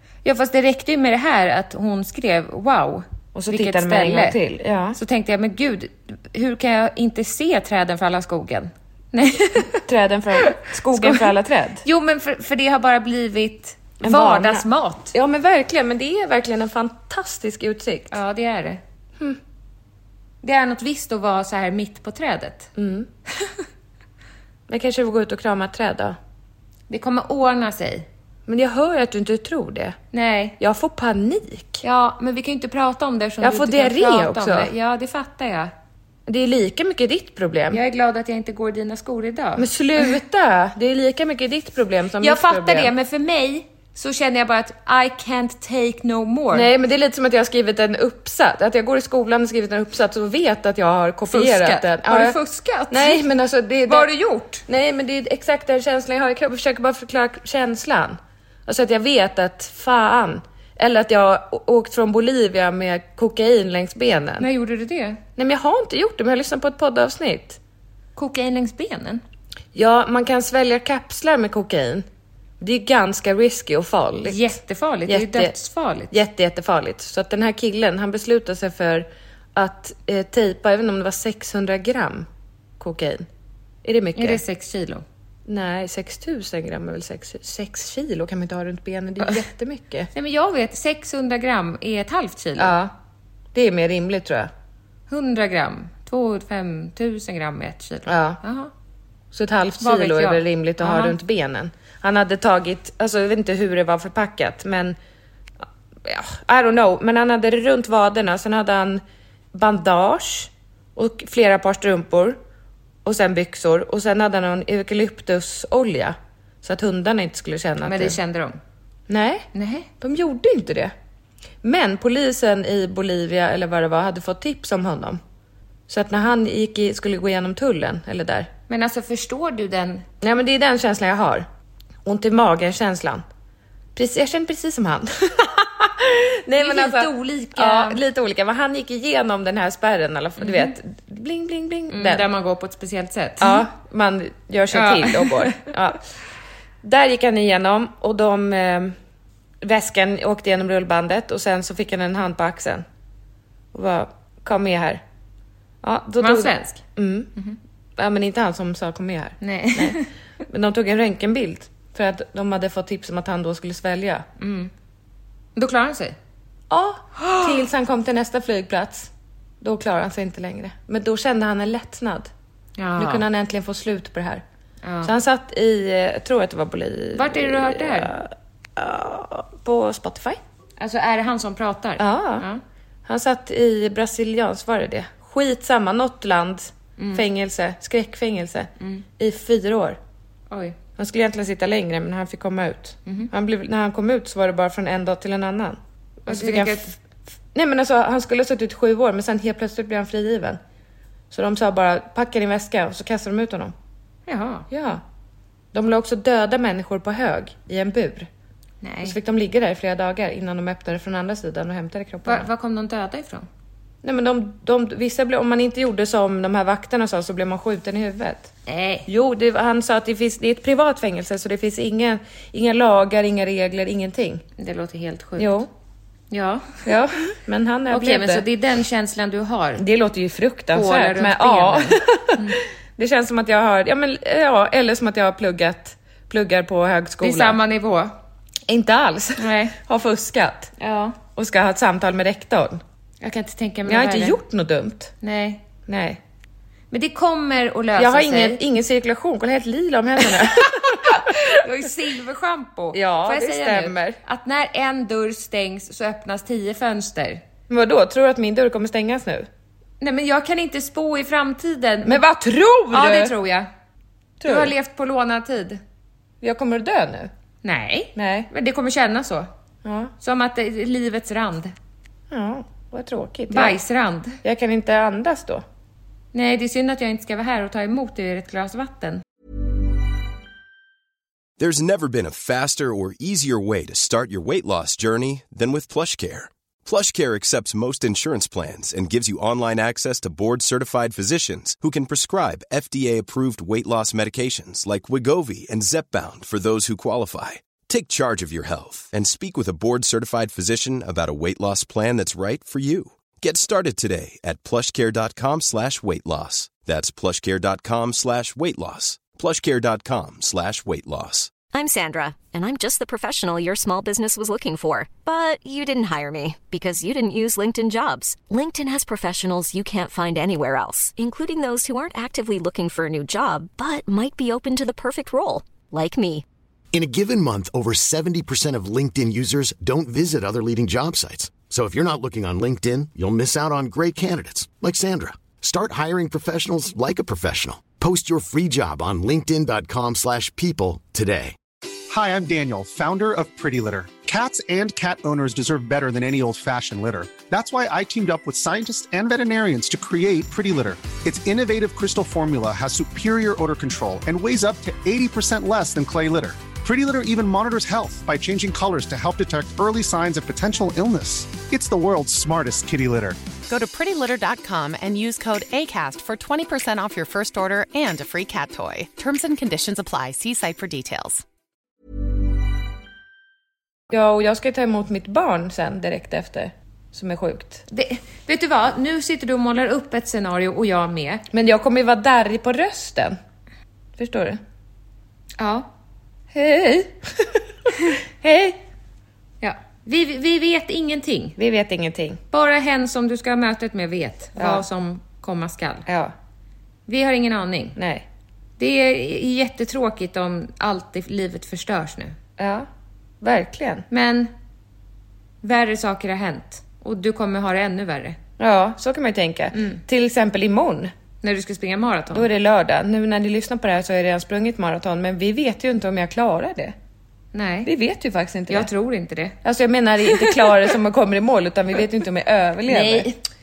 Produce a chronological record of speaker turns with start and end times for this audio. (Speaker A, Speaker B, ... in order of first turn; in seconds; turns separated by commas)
Speaker A: 0.2-4.4, Speaker B: 3.3-5.0, Speaker A: 4.9-9.8, Speaker B: 9.8-11.8, Speaker A: 10.4-11.3, Speaker A: 11.8-15.1, Speaker B: 14.0-18.2, Speaker A: 18.1-18.8, Speaker A: 20.4-22.7, Speaker B: 22.7-23.1, Speaker B: 24.7-26.2, Speaker A: 26.9-28.1, Speaker B: 28.5-30.0, Speaker A: 30.1-30.6, Speaker B: 30.6-31.8, Speaker A: 31.8-35.7, Speaker B: 33.4-34.7, Speaker B: 36.2-37.8, Speaker A: 37.7-39.7, Speaker B: 39.6-42.9, Speaker A: 42.2-46.7, Speaker B: 46.5-52.4, Speaker A: 51.3-53.2, Speaker B: 52.9-54.1, Speaker A: 53.9-54.6, Speaker B: 54.6-64.5, Speaker A: 64.4-65.2, Speaker B: 65.4-67.6, Speaker A: 68.2-69.2, Speaker B: 69.7-72.1, Speaker B: 72.6-74.5, Speaker A: 74.2-76.1, Speaker B: 75.1-75.5, Speaker B: 76.1-82.3, Speaker B: 82.8-83.3, Speaker B: 83.8-84.4, Speaker A: 84.2-85.0, Speaker B: 85.5-90.1, Speaker A: 90.1-92.8, Speaker B: 92.5-92.9, Speaker B: 93.5-94.5, Speaker A: 95.1-98.7, Speaker B: 98.0-98.4, Speaker B: 99.3-105.0, Speaker A: 99.8-101.1, Speaker B: 105.6-112.4, Speaker B: 113.0-118.2, Speaker A: 117.8-118.6, Speaker B: 119.1-119.5, Speaker A: 119.5-119.9, Speaker B: 120.0-120.9, Speaker B: 121.6-125.2, Speaker B: 125.9-128.5, Speaker A: 128.7-130.1, Speaker B: 130.2-131.4, Speaker B: 132.0-133.2, Speaker B: 133.9-142.2, Speaker A: 136.6-138.0, Speaker A: 140.4-140.7, Speaker A: 141.9-143.7, Speaker B: 143.4-146.0, Speaker A: 144.7-145.7, Speaker B: 146.8-148.9, Speaker B: 149.6-152.8, Speaker B: 153.7-155.0, Speaker B: 155.8-157.3, Speaker A: 156.2-156.8, Speaker B: 158.0-164.2, Speaker A: 159.4-160.1, Speaker A: 164.4-164.7, Speaker A: 165.6-166.2, Speaker B: 166.7-172.3, Speaker A: 172.8-173.2, Speaker B: 172.9-174.4, Speaker A: 174.8-175.1, Speaker B: 175.0-180.4, Speaker A: 177.1-178.1, Speaker A: 180.8-182.6, Speaker B: 182.0-182.4, Speaker B: 183.1-190.0, Speaker A: 187.0-187.2, Speaker A: 188.8-189.0, Speaker A: 190.5-190.8, Speaker B: 191.0-197.0, Speaker A: 196.3-196.9, Speaker B: 197.5-200.6, Speaker B: 201.3-203.7, Speaker A: 204.3-204.7, Speaker B: 204.7-205.0, Speaker B: 205.7-208.3, Speaker A: 208.8-209.2, Speaker B: 209.0-212.5, Speaker A: 212.2-213.4, Speaker B: 214.0-218.5, Speaker A: 218.7-219.1, Speaker B: 219.1-224.4, Speaker A: 224.6-225.6, Speaker B: 225.4-225.7, Speaker A: 226.3-226.8, Speaker B: 226.8-228.4, Speaker A: 227.9-229.8, Speaker B: 229.8-237.6, Speaker A: 230.7-232.6, Speaker A: 237.2-238.2, Speaker B: 238.7-240.7, Speaker A: 239.4-239.8, Speaker A: 240.8-241.2, Speaker B: 241.3-242.8, Speaker A: 243.2-244.4, Speaker B: 243.8-245.1, Speaker A: 245.2-245.6, Speaker B: 245.9-246.2, Speaker A: 246.9-248.6, Speaker B: 247.9-251.6, Speaker A: 250.9-257.4, Speaker B: 252.9-254.2, Speaker B: 257.7-259.5, Speaker A: 260.0-262.2, Speaker B: 262.0-263.3, Speaker A: 262.9-263.7, Speaker B: 264.4-264.7, Speaker A: 264.4-265.8, Speaker B: 266.4-267.3, Speaker A: 267.6-269.5, Speaker B: 268.1-268.5, Speaker B: 269.8-270.1, Speaker A: 270.2-271.7, Speaker B: 272.3-273.8, Speaker A: 273.5-274.4, Speaker B: 274.4-275.6, Speaker A: 276.3-279.2, Speaker C: 281.6-311.6, Speaker D: 311.7-326.4, Speaker E: 326.9-341.6, Speaker F: 342.1-363.4, Speaker G: 363.7-371.4, Speaker B: 374.1-377.8, Speaker A: 377.9-381.4, Speaker B: 381.5-383.4, Speaker B: 384.2-384.6, Speaker A: 385.6-385.9, Speaker B: 386.5-387.6, Speaker B: 388.2-388.8, Speaker A: 389.6-391.6, Speaker B: 391.6-392.4, Speaker A: 392.5-396.1, Speaker B: 394.6-394.8, Speaker B: 396.1-396.3, Speaker A: 397.1-398.0, Speaker B: 397.9-398.2, Speaker A: 398.8-402.4, Speaker B: 402.6-402.9, Speaker B: 403.4-404.1, Speaker A: 404.1-404.5, Speaker A: 405.6-408.4, Speaker B: 408.6-411.1, Speaker A: 409.7-410.0, Speaker A: 411.4-412.5, Speaker B: 412.3-416.9, Speaker A: 417.5-417.9, Speaker B: 417.8-418.9, Speaker A: 418.7-419.6, Speaker B: 419.6-423.3, Speaker A: 420.2-420.8, Speaker A: 422.9-423.3